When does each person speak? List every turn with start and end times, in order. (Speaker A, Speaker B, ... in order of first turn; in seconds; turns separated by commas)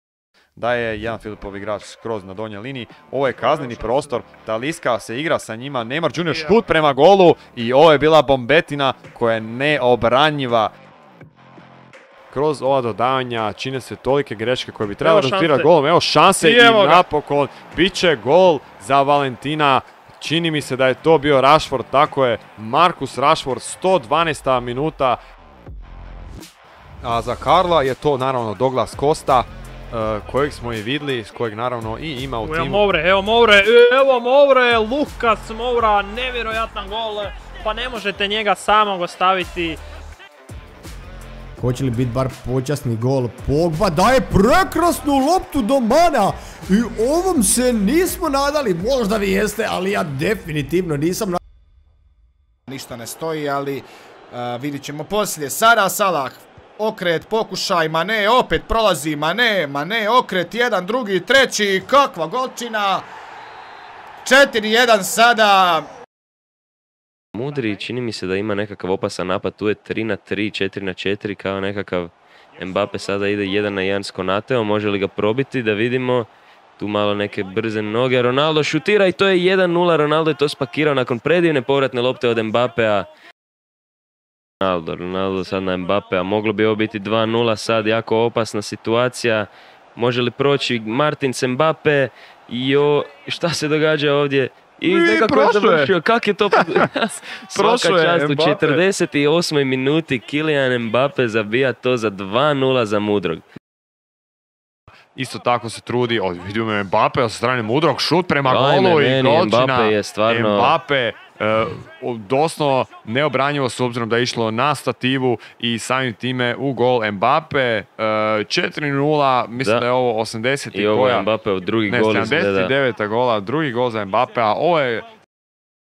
Speaker A: 0.6-10.7, Speaker B: 3.4-3.9, Speaker B: 6.3-6.6, Speaker A: 12.3-25.2, Speaker B: 15.0-15.7, Speaker B: 16.4-17.0, Speaker A: 27.0-32.9, Speaker B: 32.4-39.8, Speaker C: 41.6-51.4, Speaker D: 52.7-63.0, Speaker D: 64.2-65.9, Speaker E: 67.3-83.1, Speaker E: 84.6-103.4, Speaker A: 94.8-95.9, Speaker A: 96.5-98.8, Speaker A: 105.2-121.3, Speaker E: 108.4-110.8, Speaker E: 119.6-119.8, Speaker E: 120.7-122.7, Speaker A: 121.9-125.1